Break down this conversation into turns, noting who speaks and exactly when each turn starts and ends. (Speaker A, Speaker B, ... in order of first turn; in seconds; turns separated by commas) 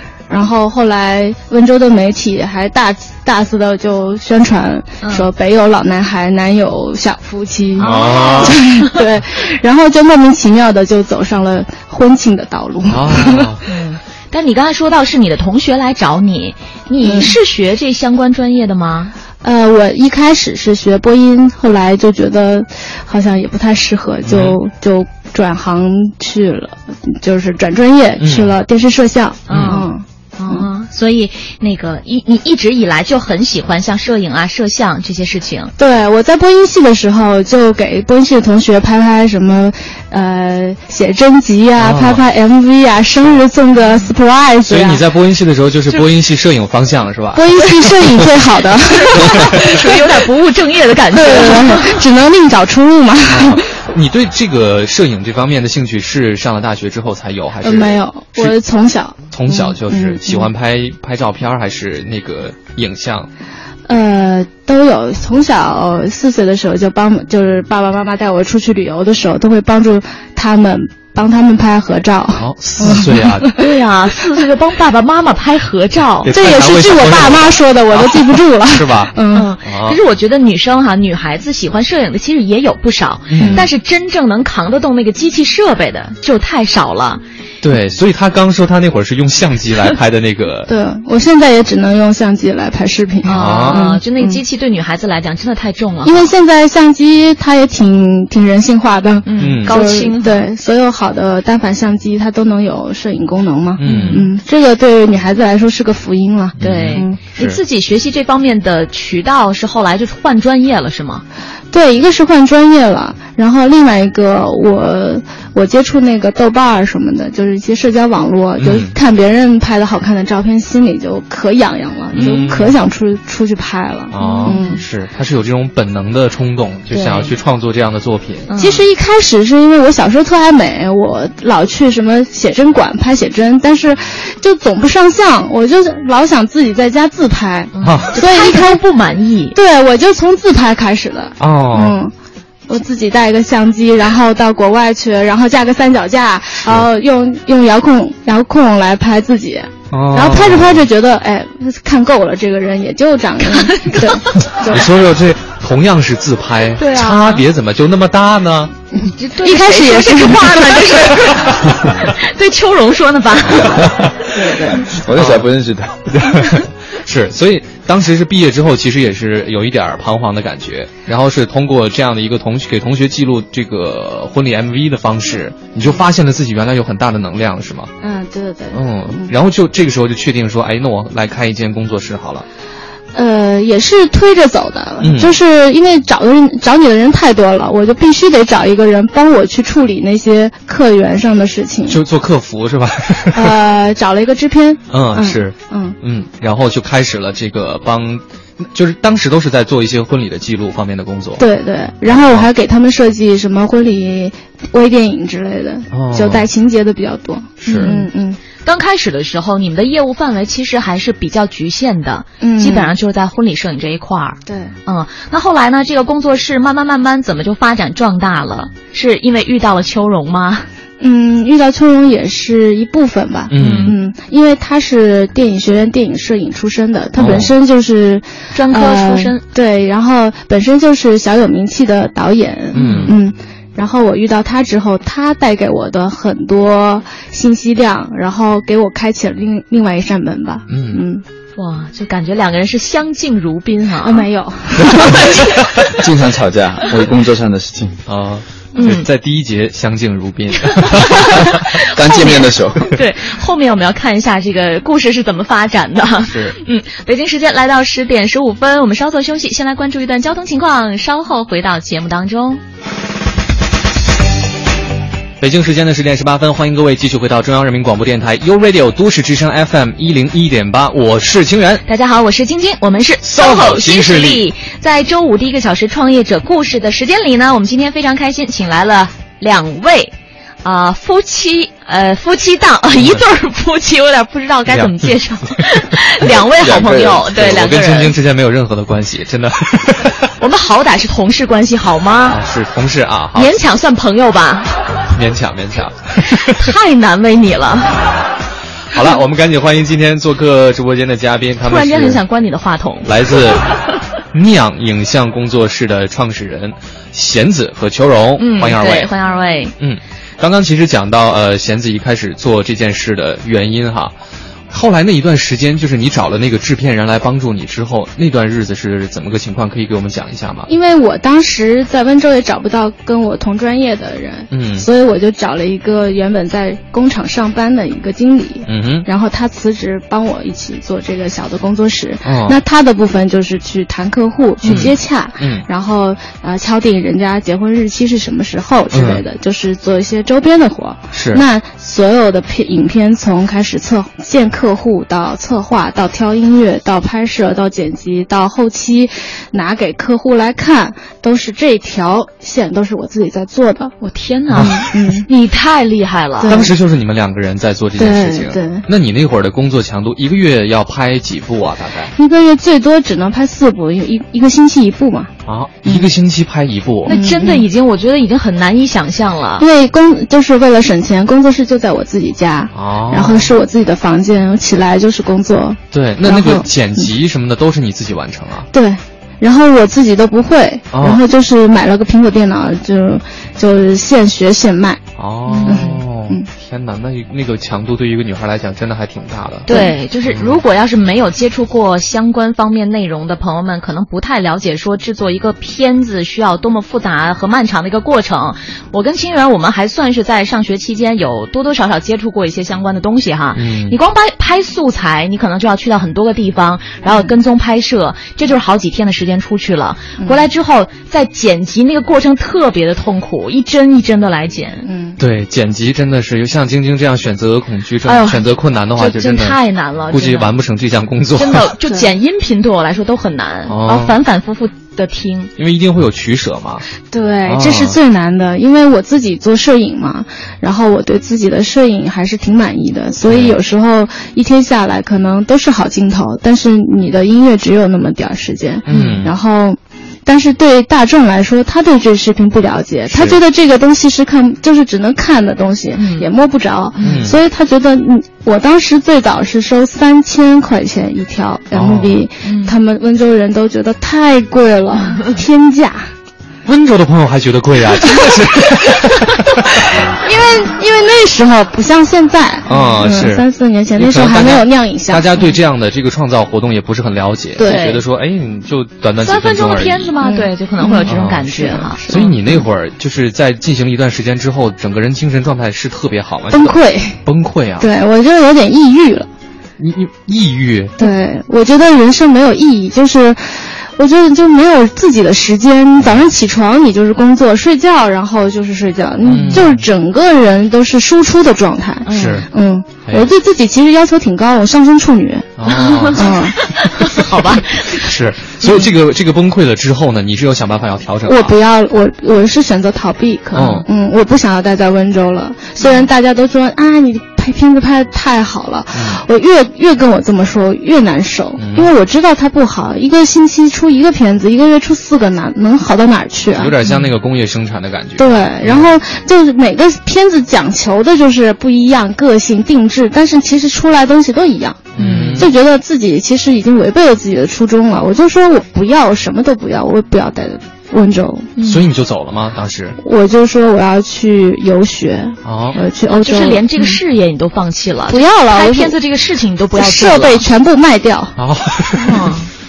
Speaker A: 0.3-13.6, Speaker B: 5.0-5.3, Speaker C: 7.8-8.6, Speaker B: 7.8-9.0, Speaker C: 12.9-13.6, Speaker B: 13.7-19.1, Speaker A: 17.0-17.4, Speaker A: 19.4-30.7, Speaker C: 24.2-24.6, Speaker C: 28.2-28.6, Speaker B: 29.5-35.7, Speaker C: 29.5-29.9, Speaker A: 35.8-45.0, Speaker C: 41.8-42.2, Speaker C: 44.7-48.2, Speaker A: 47.3-50.0, Speaker B: 48.9-52.0, Speaker C: 49.2-49.5, Speaker A: 51.1-53.8, Speaker C: 53.3-58.5, Speaker A: 57.6-60.5, Speaker C: 59.3-63.3, Speaker A: 63.9-73.7, Speaker C: 72.4-73.5, Speaker B: 73.6-76.3, Speaker C: 76.2-80.0, Speaker A: 76.3-79.5, Speaker B: 79.3-87.2, Speaker C: 83.3-83.7, Speaker A: 83.4-83.7, Speaker C: 87.6-90.7, Speaker A: 90.7-94.4, Speaker B: 93.2-96.3, Speaker C: 93.3-94.0, Speaker A: 96.0-107.2, Speaker B: 99.3-100.5, Speaker C: 99.4-99.8, Speaker C: 103.8-104.3, Speaker B: 103.8-104.3, Speaker C: 106.6-107.6, Speaker B: 106.6-111.2, Speaker A: 111.7-124.8, Speaker C: 118.6-118.9, Speaker B: 122.1-122.5, Speaker C: 122.1-122.8, Speaker C: 124.1-128.5, Speaker B: 124.2-124.8, Speaker B: 126.9-127.3, Speaker B: 128.5-128.8, Speaker A: 128.6-138.8, Speaker B: 137.7-139.6, Speaker C: 137.8-138.1, Speaker A: 139.5-142.1, Speaker C: 141.4-142.0, Speaker A: 142.7-154.9, Speaker C: 146.6-146.9, Speaker C: 149.9-150.9, Speaker B: 153.4-154.5, Speaker C: 154.7-158.7, Speaker B: 156.8-157.4, Speaker A: 158.9-161.3, Speaker B: 159.2-164.8, Speaker D: 163.8-166.5, Speaker A: 164.4-164.8, Speaker C: 165.1-165.5, Speaker C: 166.4-177.9, Speaker A: 178.0-179.3, Speaker C: 178.7-182.4, Speaker A: 183.1-192.0, Speaker C: 185.0-185.4, Speaker C: 191.9-193.6, Speaker A: 193.3-196.0, Speaker C: 194.9-201.4, Speaker A: 201.4-208.4, Speaker C: 202.1-202.5, Speaker C: 205.9-206.5, Speaker C: 207.6-208.0, Speaker B: 207.7-208.0, Speaker B: 208.6-220.7, Speaker A: 212.4-212.9, Speaker A: 214.5-214.8, Speaker A: 221.0-241.2, Speaker C: 223.5-224.0, Speaker B: 223.6-224.0, Speaker C: 227.2-227.5, Speaker B: 228.5-229.4, Speaker C: 232.7-233.2, Speaker B: 232.8-233.2, Speaker C: 240.7-241.0, Speaker B: 241.6-244.3, Speaker A: 244.0-245.5, Speaker B: 244.9-245.6, Speaker D: 245.8-248.0, Speaker C: 248.1-251.5, Speaker B: 248.8-249.1, Speaker B: 250.7-262.6, Speaker D: 251.8-253.0, Speaker C: 256.2-256.6, Speaker C: 265.4-271.8, Speaker B: 271.9-288.1, Speaker C: 273.2-274.5, Speaker C: 282.9-283.2, Speaker C: 284.7-285.8, Speaker D: 286.6-287.3, Speaker C: 287.3-290.3, Speaker B: 290.4-292.4, Speaker C: 292.3-293.5, Speaker B: 293.4-294.7, Speaker C: 295.1-296.7, Speaker B: 296.4-298.0, Speaker C: 298.9-302.2, Speaker B: 301.6-303.1, Speaker C: 303.0-303.7, Speaker C: 304.2-309.1, Speaker B: 308.4-309.7, Speaker C: 309.8-314.1, Speaker C: 314.7-320.7, Speaker A: 320.7-353.9, Speaker C: 324.5-324.9, Speaker C: 328.7-329.1, Speaker C: 332.3-332.6, Speaker C: 334.6-335.7, Speaker B: 334.7-334.9, Speaker C: 338.9-339.2, Speaker C: 341.1-341.4, Speaker B: 354.0-356.6, Speaker C: 354.5-354.9, Speaker A: 354.6-355.3, Speaker A: 356.4-356.8, Speaker C: 356.5-362.1, Speaker A: 358.0-358.9, Speaker A: 362.1-365.3, Speaker C: 365.5-367.2, Speaker A: 365.8-366.1, Speaker B: 367.1-369.6, Speaker A: 367.1-367.7, Speaker A: 369.6-377.1, Speaker C: 372.7-373.5, Speaker C: 375.9-378.7, Speaker A: 378.7-385.0, Speaker C: 380.9-381.2, Speaker C: 385.2-389.7, Speaker B: 385.5-385.8, Speaker A: 385.7-386.5, Speaker B: 389.7-414.9, Speaker A: 389.7-389.9, Speaker C: 390.3-390.6, Speaker C: 403.6-404.0, Speaker A: 407.1-407.3, Speaker A: 410.2-410.4, Speaker A: 414.9-415.2, Speaker C: 415.2-419.6, Speaker B: 418.1-420.6, Speaker C: 420.1-421.7, Speaker B: 421.4-425.5, Speaker C: 423.7-424.2, Speaker C: 425.6-426.9, Speaker A: 427.1-456.1, Speaker C: 427.5-428.0, Speaker C: 433.3-433.6, Speaker C: 438.9-439.3, Speaker B: 438.9-439.2, Speaker C: 443.1-443.4, Speaker B: 445.9-446.3, Speaker B: 447.0-447.2, Speaker C: 447.0-447.4, Speaker C: 451.7-452.2, Speaker B: 452.4-452.8, Speaker C: 456.6-459.8, Speaker A: 460.1-465.5, Speaker C: 462.7-470.1, Speaker A: 467.6-467.9, Speaker B: 467.6-468.0, Speaker B: 469.2-472.1, Speaker A: 470.2-472.7, Speaker C: 471.1-471.4, Speaker C: 472.1-477.9, Speaker A: 476.5-477.2, Speaker A: 477.8-479.3, Speaker C: 479.8-481.0, Speaker A: 481.0-495.5, Speaker C: 486.0-486.3, Speaker C: 489.2-489.9, Speaker B: 492.1-492.4, Speaker C: 492.1-492.5, Speaker C: 495.6-496.5, Speaker B: 495.7-498.1, Speaker A: 496.1-496.6, Speaker C: 497.0-501.6, Speaker A: 501.2-516.8, Speaker C: 503.5-503.9, Speaker B: 505.8-506.1, Speaker C: 508.9-509.2, Speaker C: 511.6-511.9, Speaker C: 516.5-518.9, Speaker A: 518.2-524.9, Speaker C: 525.0-525.5, Speaker B: 525.0-525.5, Speaker A: 525.4-531.5, Speaker B: 531.6-531.9, Speaker C: 531.6-533.0, Speaker A: 533.0-537.0, Speaker C: 535.5-535.8, Speaker B: 536.1-540.4, Speaker A: 538.1-539.0, Speaker A: 539.8-541.4, Speaker C: 541.4-542.3, Speaker B: 542.0-542.5